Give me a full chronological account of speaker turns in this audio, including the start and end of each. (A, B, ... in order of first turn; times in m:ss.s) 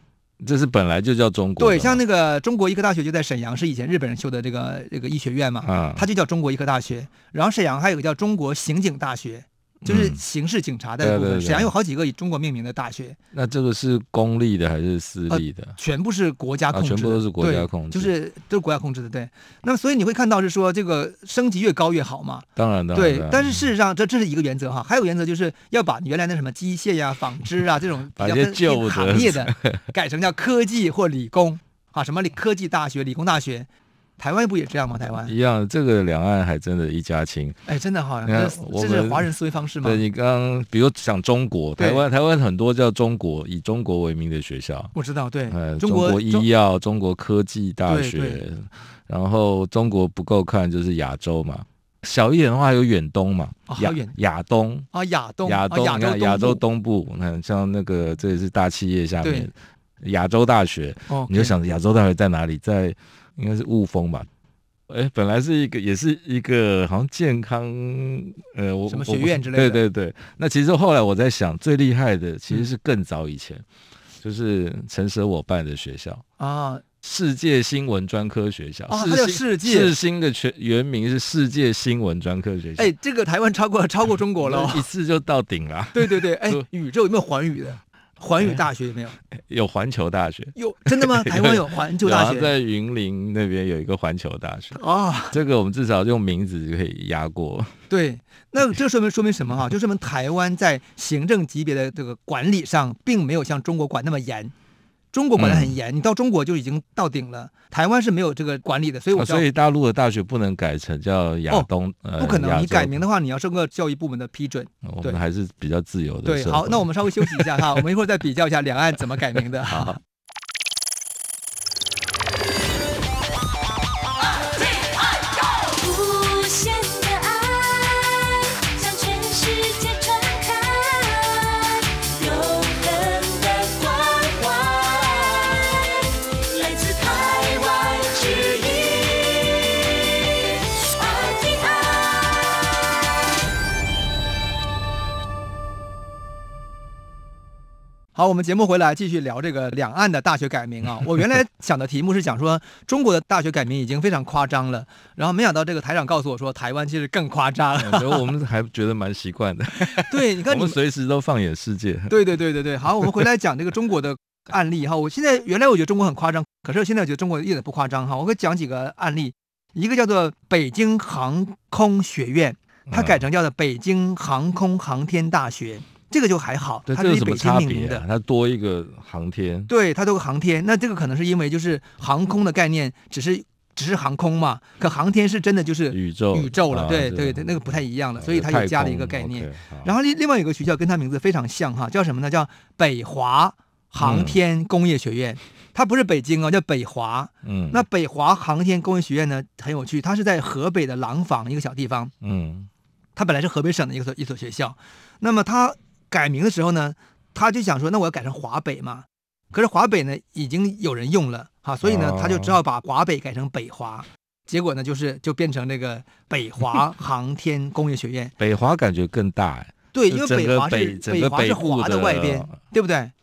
0:00.4-0:02.0 A
0:01.6-0:13.2 B
0:05.6-0:06.0 A
0:09.9-0:10.2 A
0:11.0-0:11.7 A
0:13.3-0:15.8 A
0:15.3-0:33.7 B
0:16.7-0:18.1 A
0:22.6-0:23.6 A
0:28.2-0:29.8 A
0:34.2-0:35.3 B
0:35.2-0:37.6 A
0:37.7-0:40.0 B
0:38.2-0:39.3 A
0:39.8-0:44.9 A
0:41.8-0:42.0 B
0:44.9-0:46.5 B
0:45.5-0:54.9 A
0:47.9-0:48.4 B
0:53.7-0:54.1 B
0:54.9-0:56.6 B
0:55.4-1:04.3 A
0:59.2-0:59.5 B
1:01.1-1:01.6 B
1:04.9-1:13.6 A
1:08.9-1:09.8 B
1:14.2-1:16.2 A
1:16.4-1:16.8 B
1:17.0-1:22.9 A
1:18.9-1:19.9 B
1:22.8-1:24.8 B
1:24.4-1:26.6 A
1:25.9-1:29.2 B
1:29.4-1:34.8 A
1:30.6-1:32.5 B
1:34.8-1:35.4 B
1:35.3-1:37.7 A
1:37.9-1:44.5 B
1:45.1-1:49.4 B
1:45.4-1:45.8 A
1:49.1-1:53.0 A
1:51.5-1:55.2 B
1:54.8-1:57.6 A
1:56.2-2:00.0 B
1:59.7-2:00.0 A
2:04.6-2:22.9 C
2:28.1-2:38.3 B
2:37.8-2:42.2 A
2:39.9-2:40.8 B
2:42.1-2:58.0 B
2:52.9-2:53.2 A
2:56.9-2:59.7 A
2:59.7-3:22.1 B
3:05.9-3:09.9 A
3:14.0-3:14.4 A
3:17.4-3:17.8 A
3:22.2-3:22.7 A
3:23.2-3:38.3 B
3:31.8-3:32.6 A
3:38.4-3:42.6 A
3:39.9-3:43.1 B